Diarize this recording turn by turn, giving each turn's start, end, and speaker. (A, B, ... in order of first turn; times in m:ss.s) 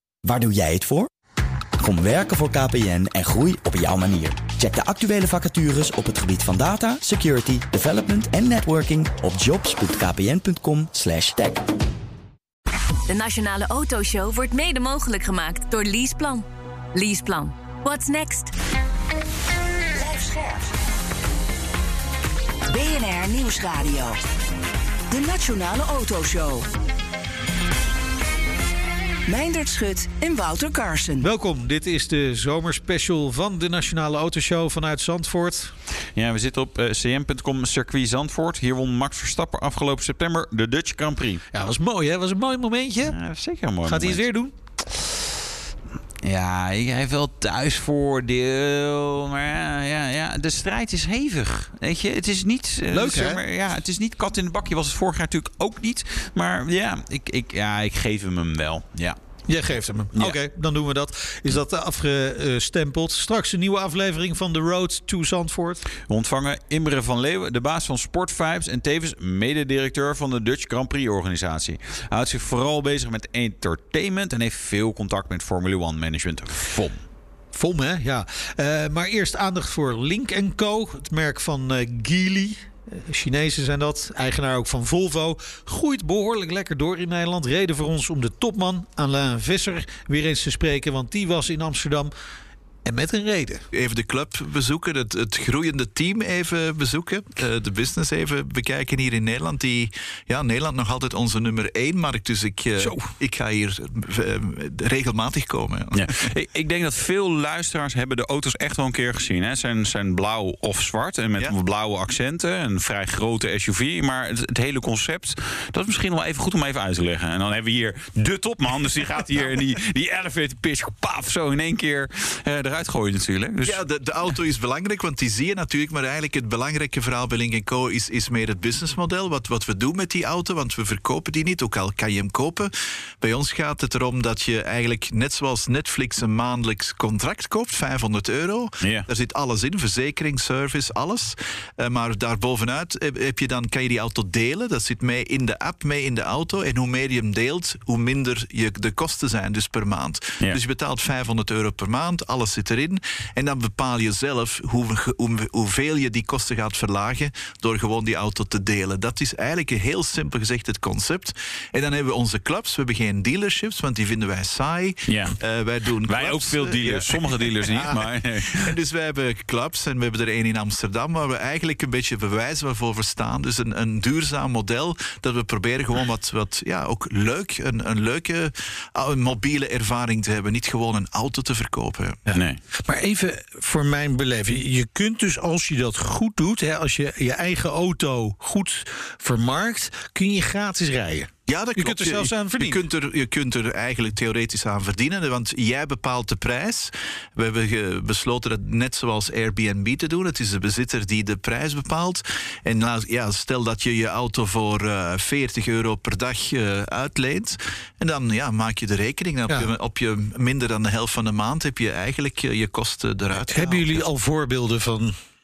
0:00.2-0:01.1 A
0:01.8-0:11.6 A
0:13.1-0:18.5 B
0:19.9-0:20.7 C
0:22.7-0:24.2 C
0:25.1-0:26.7 C
0:29.3-0:31.3 C
0:31.2-0:35.7 D
0:36.1-0:41.5 E
0:41.5-0:43.2 D
0:43.0-0:44.2 E
0:43.8-0:44.5 D
0:46.2-0:59.2 E
0:52.9-0:53.4 D
0:59.5-1:05.8 D
1:06.0-1:17.0 E
1:17.5-1:32.1 D
1:32.8-1:33.6 D
1:33.7-1:46.3 F
1:42.8-1:43.1 D
1:45.9-2:03.8 E
2:03.6-3:02.2 F
2:18.8-2:19.1 E
2:45.1-2:45.4 E
2:46.0-2:48.7 E
3:02.3-3:12.8 D
3:11.5-3:33.8 F
3:33.5-3:35.1 D